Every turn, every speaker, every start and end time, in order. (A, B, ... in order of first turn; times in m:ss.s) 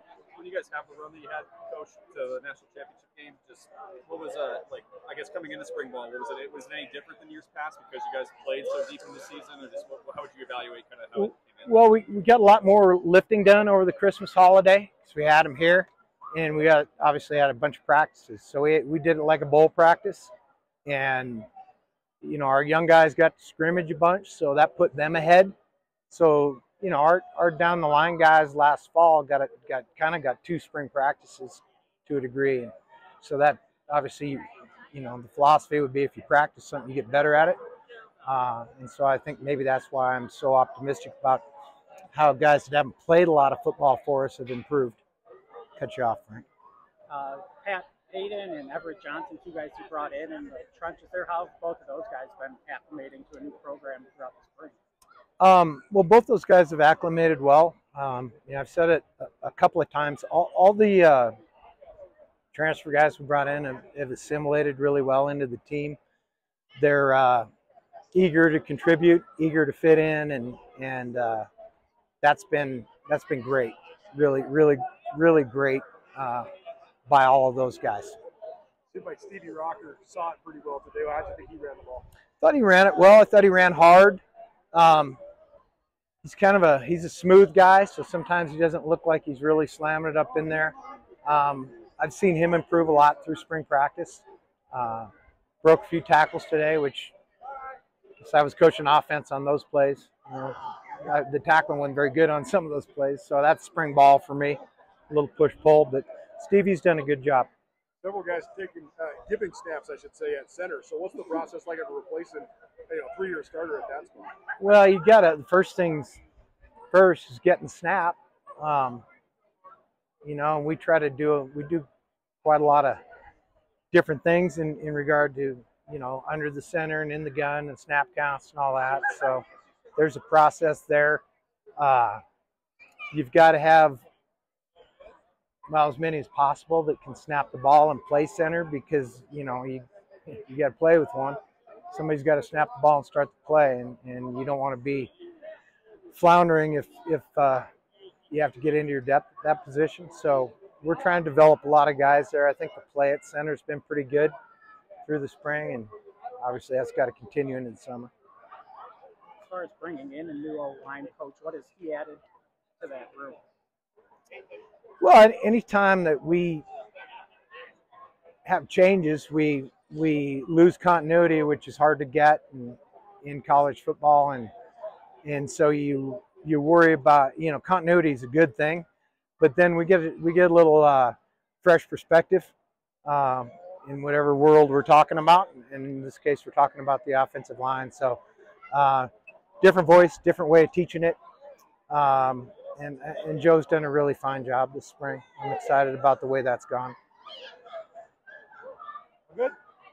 0:00.4-0:11.7 A
0:11.2-0:20.3 B
0:20.8-0:21.5 B
0:22.2-0:25.5 B
0:26.1-0:37.6 B
0:38.2-0:41.4 B
0:42.1-0:45.0 B
0:45.8-0:46.5 B
0:47.1-0:54.8 C
0:55.4-1:01.3 B
1:02.5-1:06.0 B
1:06.8-1:07.5 B
1:08.1-1:11.5 B
1:12.2-1:16.5 B
1:17.1-1:18.2 B
1:18.9-1:22.1 D
1:22.4-1:24.2 B
1:24.7-1:25.2 B
1:26.2-1:35.1 B
1:35.6-1:37.1 B
1:38.2-1:47.5 B
1:48.0-1:54.3 D
1:54.6-1:56.2 B
1:56.9-1:59.0 B
2:00.2-2:01.9 B
2:02.4-2:03.0 B
2:03.9-2:09.4 B
2:10.0-2:11.2 B
2:11.8-2:12.2 B
2:13.1-2:14.0 B
2:15.7-2:21.4 B
2:21.9-2:25.1 B
2:26.1-2:27.7 B
2:28.3-2:34.3 B
2:35.1-2:38.1 B
2:39.4-2:42.2 C
2:42.8-2:43.4 C
2:45.0-2:46.6 B
2:48.5-2:54.5 B
2:55.2-2:58.9 B
2:59.4-3:02.5 B
3:03.0-3:08.2 B
3:08.7-3:11.2 B
3:11.9-3:17.0 B
3:19.3-3:19.6 D